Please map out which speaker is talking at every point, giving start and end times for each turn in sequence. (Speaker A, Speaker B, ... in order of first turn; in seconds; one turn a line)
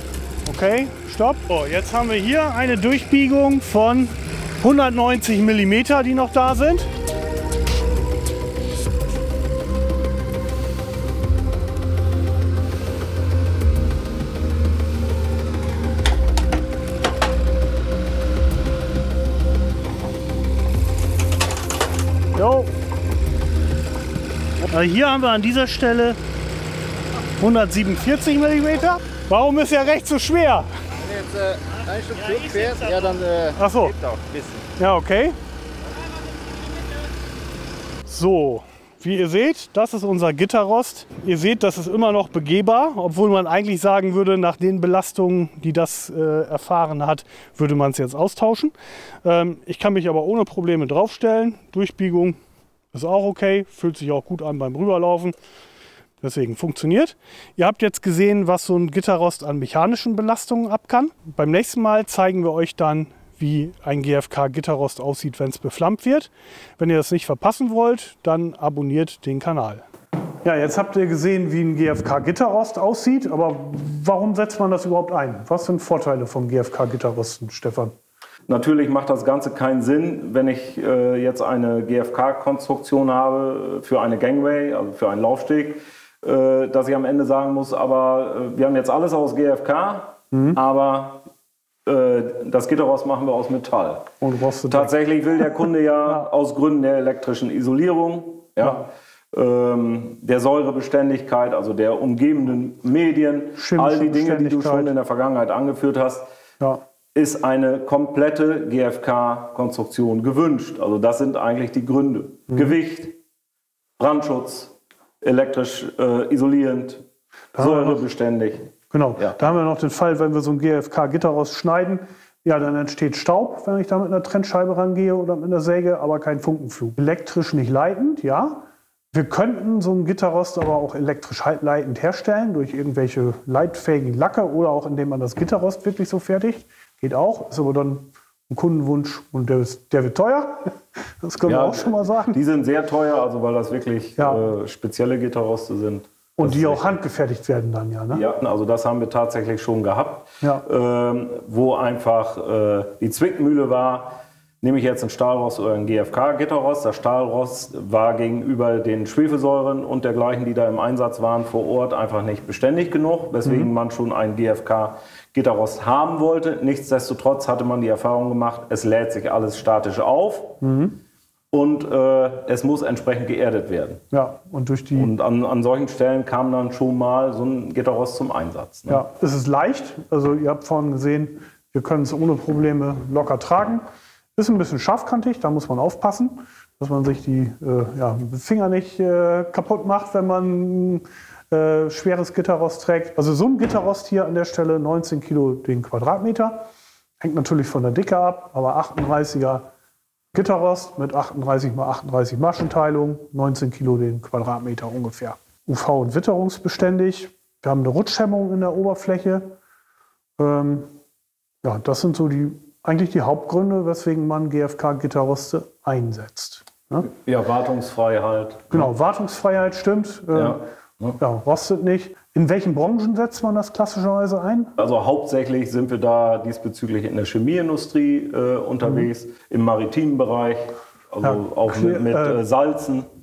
Speaker A: 0.5-6.9
Speaker A: 22.3-22.7
Speaker A: 24.7-26.2
Speaker A: 27.4-30.7
Speaker B: 31.1-33.5
Speaker A: 32.2-34.0
Speaker B: 34.1-34.6
Speaker A: 34.8-35.4
Speaker A: 38.1-52.4
Speaker A: 52.9-55.3
Speaker A: 56.2-69.8
Speaker A: 70.4-77.9
Speaker C: 78.5-91.2
Speaker A: 90.3-90.6
Speaker C: 91.8-94.0
Speaker A: 94.2-94.9
Speaker C: 94.7-106.2
Speaker A: 103.6-104.9
Speaker C: 107.1-113.2
Speaker C: 114.0-117.0
Speaker A: 117.5-118.0
Speaker C: 117.6-119.4
Speaker A: 118.9-142.4
Speaker C: 141.4-146.9
Speaker A: 144.2-144.4
Speaker A: 146.4-148.2
Speaker C: 148.1-170.6
Speaker A: 163.4-163.7
Speaker A: 170.6-171.0
Speaker C: 171.5-174.0
Speaker A: 174.1-175.1
Speaker C: 174.9-179.0
Speaker A: 178.9-183.8
Speaker A: 184.3-196.6
Speaker A: 197.2-199.6
Speaker A: 200.3-209.5
Speaker A: 210.4-210.9
Speaker A: 211.6-217.1
Speaker C: 217.0-218.9
Speaker A: 218.7-220.6
Speaker C: 220.3-221.2
Speaker A: 221.2-224.7
Speaker C: 224.8-233.1
Speaker A: 231.2-232.4